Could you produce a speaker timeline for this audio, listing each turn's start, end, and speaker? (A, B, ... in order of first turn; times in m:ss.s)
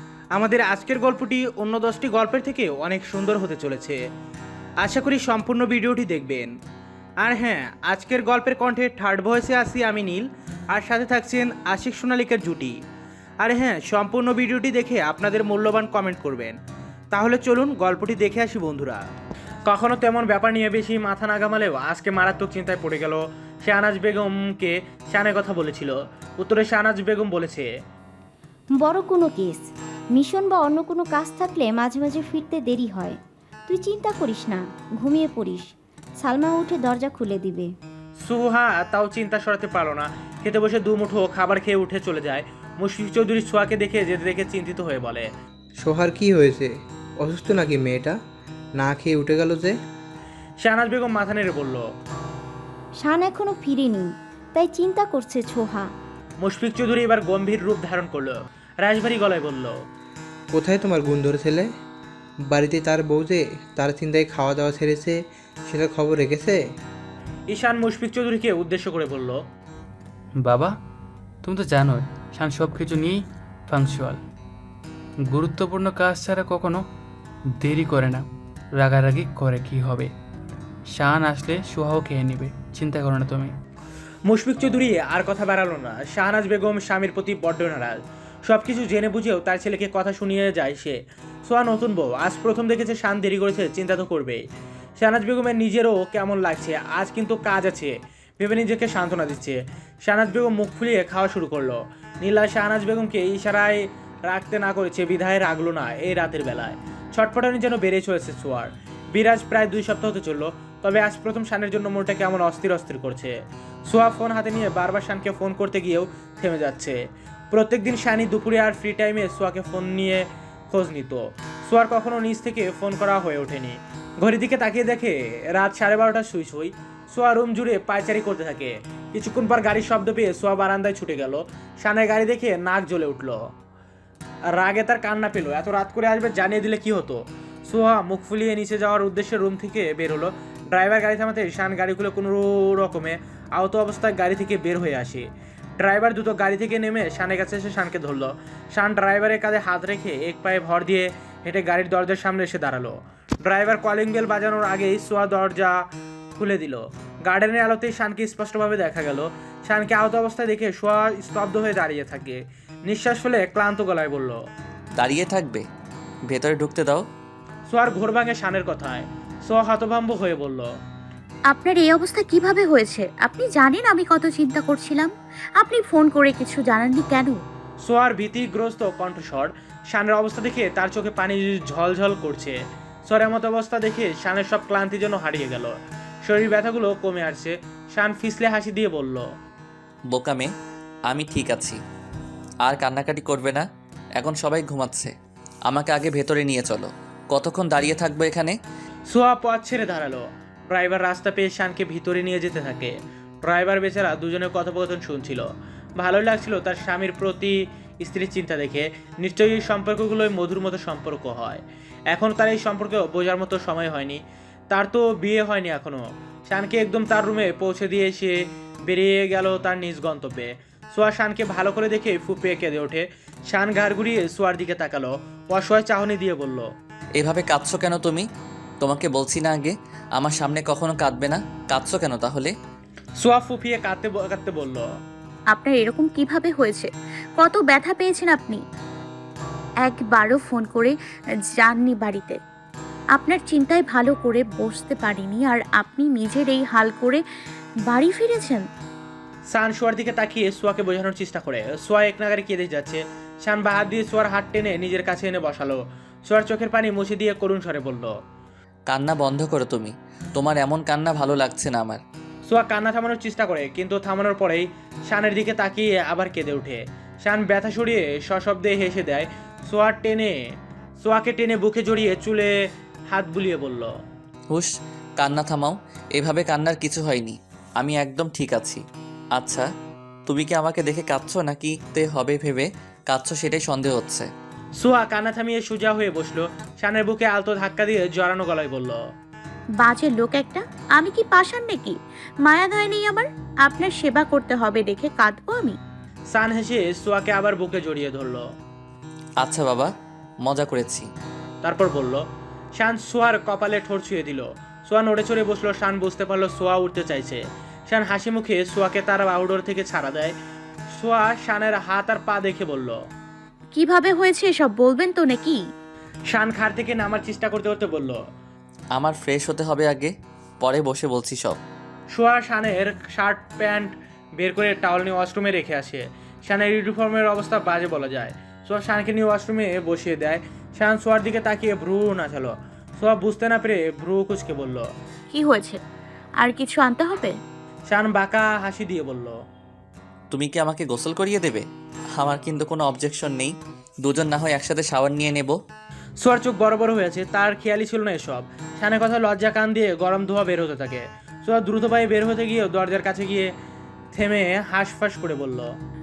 0:00.3-0:04.0 A
0:04.8-0:06.5 A
0:07.2-0:12.8 A
0:13.4-0:16.6 A
0:17.1-0:19.0 A
0:19.7-0:27.7 A
0:28.8-0:37.7 B
0:38.2-0:45.2 A
0:45.8-0:46.7 C
0:47.2-0:48.2 C
0:48.8-0:49.7 C
0:50.6-0:51.8 A
0:53.0-0:55.9 B
0:56.4-0:59.8 A
1:00.5-1:01.7 C
1:02.5-1:05.2 C
1:05.7-1:06.6 C
1:07.5-1:09.4 A
1:10.5-1:10.7 D
1:11.4-1:14.2 D
1:15.3-1:16.8 D
1:17.6-1:18.2 D
1:18.8-1:20.1 D
1:21.0-1:23.5 D
1:24.3-1:34.4 A
1:35.0-1:53.3 A
1:53.9-1:57.0 A
1:57.5-2:13.4 A
2:14.6-2:25.2 A
2:25.8-2:35.8 A
2:36.4-2:44.4 A
2:45.0-2:45.6 E
2:46.3-2:47.0 E
2:47.7-2:50.7 A
2:51.5-2:57.4 F
2:57.8-3:02.6 A
3:03.1-3:09.2 A
3:10.1-3:10.5 E
3:11.1-3:11.8 E
3:12.6-3:13.6 E
3:14.2-3:15.1 E
3:15.7-3:18.6 E
3:19.1-3:22.9 A
3:23.4-3:25.5 A
3:26.0-3:34.2 A
3:34.7-3:38.4 A
3:38.9-3:46.7 A
3:47.2-3:48.2 E
3:48.8-3:52.5 E
3:53.2-3:54.9 A
3:55.5-3:58.6 F
3:59.8-4:00.9 F
4:01.6-4:02.4 F
4:03.2-4:07.2 F
4:07.9-4:08.6 F
4:09.5-4:18.1 A
4:18.9-4:22.0 E
4:22.5-4:30.4 A
4:31.0-4:32.5 A
4:33.1-4:33.9 A
4:34.5-4:38.8 E
4:39.4-4:39.7 E
4:40.3-4:44.3 E
4:44.8-4:49.0 A
4:49.8-4:55.8 F
4:56.3-4:58.4 A
4:59.4-4:59.9 E
5:00.4-5:01.1 E
5:01.6-5:02.2 A
5:02.8-5:10.3 A
5:10.9-5:13.0 A
5:13.7-5:15.6 F
5:16.3-5:18.2 A
5:19.0-5:21.6 E
5:22.1-5:34.8 A
5:35.3-5:35.8 F
5:36.4-5:37.3 F
5:37.9-5:39.4 A
5:40.3-5:41.6 E
5:42.2-5:45.6 E
5:46.2-5:53.5 A
5:54.1-5:55.7 A